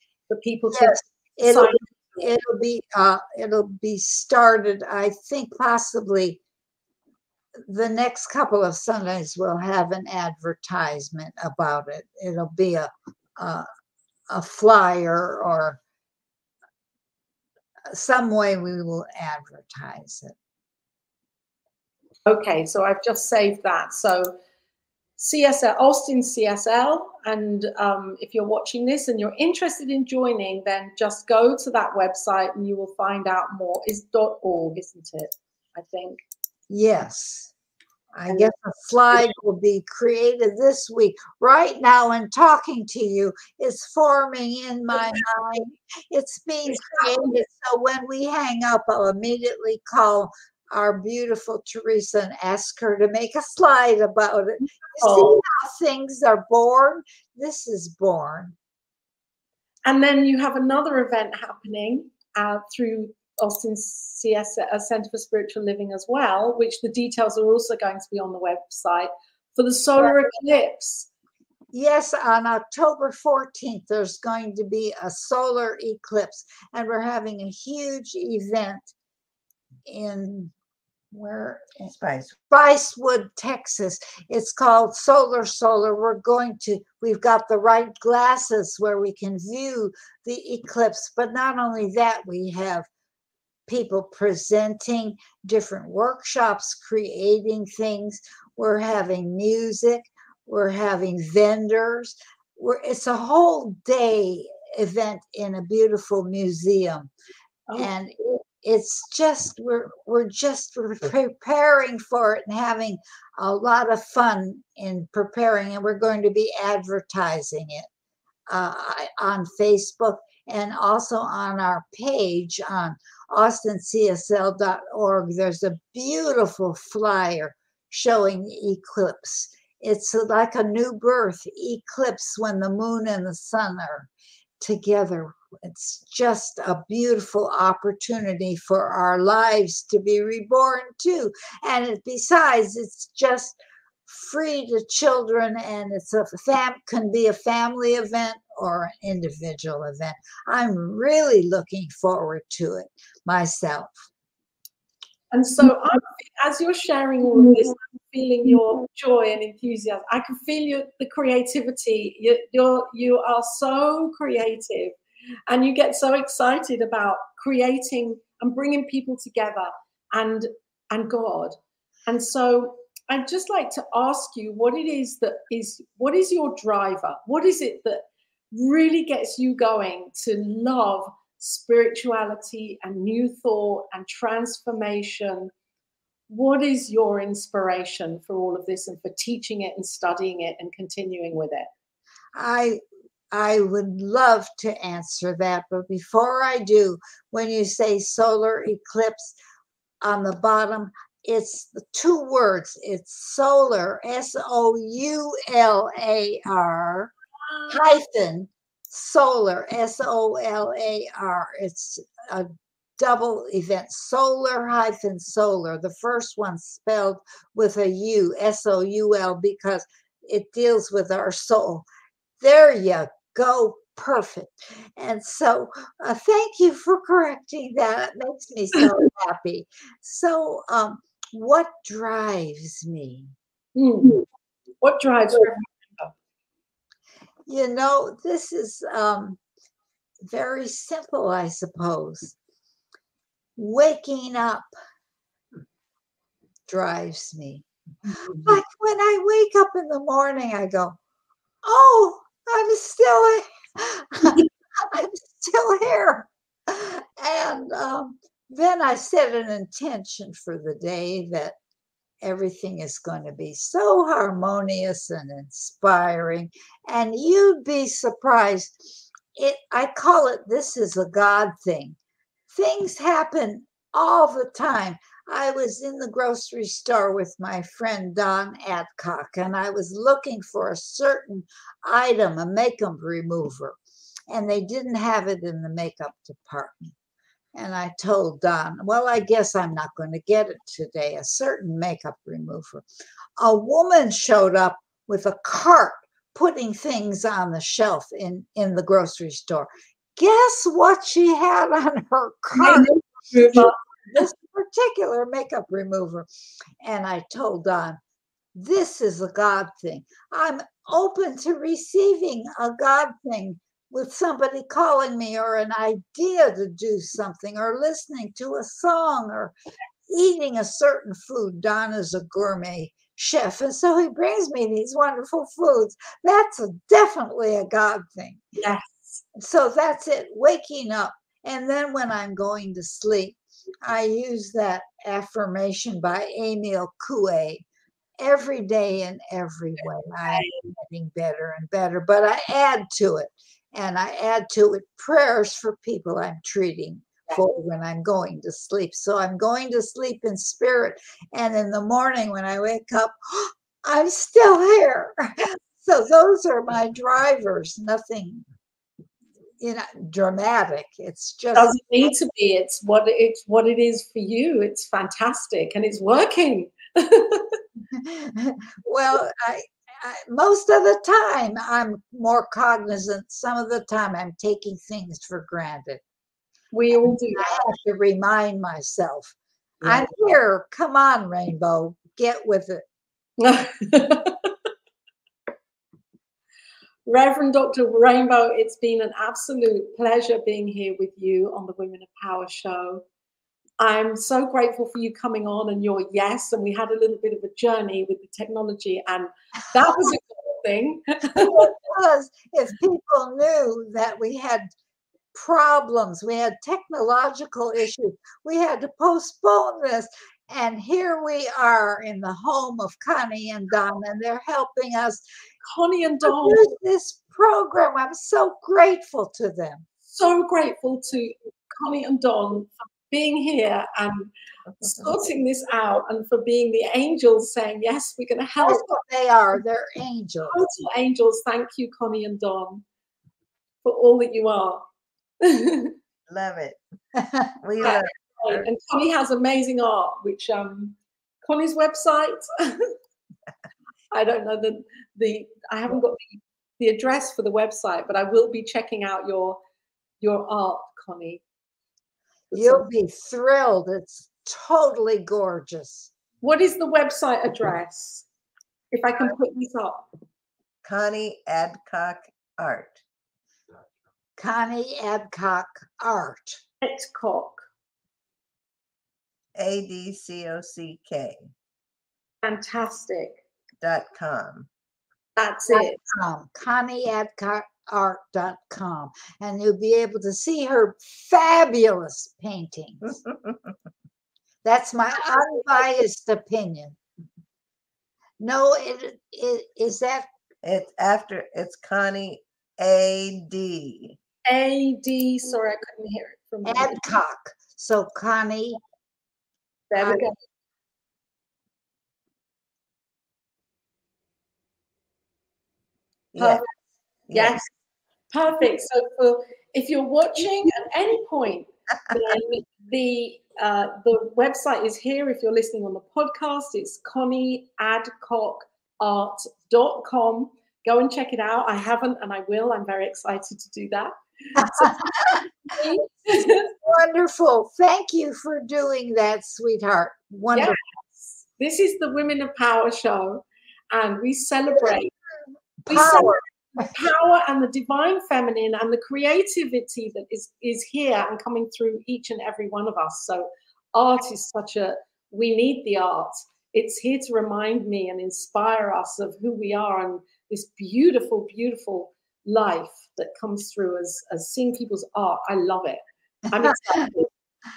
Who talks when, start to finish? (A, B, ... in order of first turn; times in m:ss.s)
0:00.3-0:02.2 A
0:00.7-0:06.4 B
0:07.7-0:13.6 B
0:14.3-0:15.8 B
0:17.9-0:20.4 B
0:22.3-0:24.4 A
0:25.2-0:36.2 A
0:36.7-0:37.5 B
0:38.1-0:58.6 B
0:46.7-0:47.4 A
0:55.0-0:55.4 A
0:59.9-1:11.1 A
1:11.7-1:18.9 B
1:19.9-1:20.5 B
1:21.1-1:21.9 B
1:22.0-1:22.4 C
1:22.5-1:32.9 B
1:33.7-1:47.1 B
1:47.8-1:57.9 B
1:58.5-2:14.1 B
2:14.6-2:34.0 B
2:35.3-2:45.0 A
2:45.5-2:51.6 A
2:52.1-3:05.5 A
3:06.3-3:11.7 A
3:12.3-3:12.8 B
3:13.3-3:19.3 B
3:20.0-3:27.1 B
3:27.7-3:41.8 B
3:42.4-3:53.3 B
3:53.7-3:54.2 A
3:54.8-3:56.1 A
3:57.5-3:59.4 B
4:00.2-4:02.4 B
4:03.6-4:04.6 B
4:06.7-4:11.0 B
4:11.6-4:21.6 B
4:22.2-4:32.0 B
4:32.5-4:43.8 B
4:44.3-4:47.0 B
4:47.6-4:52.8 B
4:53.4-5:02.9 B
5:02.6-5:04.2 A
5:03.5-5:06.3 B
5:06.8-5:08.0 B
5:08.5-5:19.5 B
5:20.1-5:28.4 B
5:28.6-5:29.2 A
5:29.4-5:37.6 B
5:38.2-5:58.4 B
5:40.3-5:40.6 A
5:59.6-6:02.1 B
6:01.6-6:07.6 A
6:07.9-6:16.0 B
6:16.7-6:17.5 A
6:17.1-6:22.8 B
6:19.8-6:20.1 A
6:23.4-6:24.5 A
6:27.0-6:33.0 A
6:33.8-6:41.7 A
6:41.4-6:44.7 B
6:45.3-6:55.2 B
6:55.7-6:56.7 A
6:56.2-6:59.8 B
7:00.0-7:09.0 A
7:08.6-7:10.6 B
7:10.5-7:12.8 A
7:13.8-7:14.9 A
7:15.4-7:15.9 A
7:16.3-7:16.8 C
7:17.6-7:18.6 C
7:17.8-7:22.9 A
7:24.1-7:29.6 A
7:30.2-7:31.4 A
7:32.5-7:36.1 B
7:36.4-7:38.3 A
7:38.9-7:40.0 A
7:40.8-7:43.0 C
7:44.4-7:46.6 B
7:46.8-7:47.6 A
7:49.6-7:51.5 C
7:52.4-7:53.4 A
7:53.8-7:54.7 C
7:55.4-7:56.0 A
7:55.7-8:03.0 B
8:04.6-8:07.0 B
8:08.4-8:10.3 B
8:10.6-8:14.2 C
8:14.4-8:17.0 A
8:16.6-8:18.8 B
8:19.9-8:20.4 A
8:20.0-8:20.3 B
8:26.4-8:26.6 C
8:26.4-8:26.6 A
8:27.3-8:27.6 C
8:27.3-8:27.7 A
8:28.3-8:46.7 A
8:44.6-8:45.4 B
8:46.8-8:50.8 B
8:51.6-8:55.1 A
8:55.9-8:56.4 B
8:55.9-9:17.3 A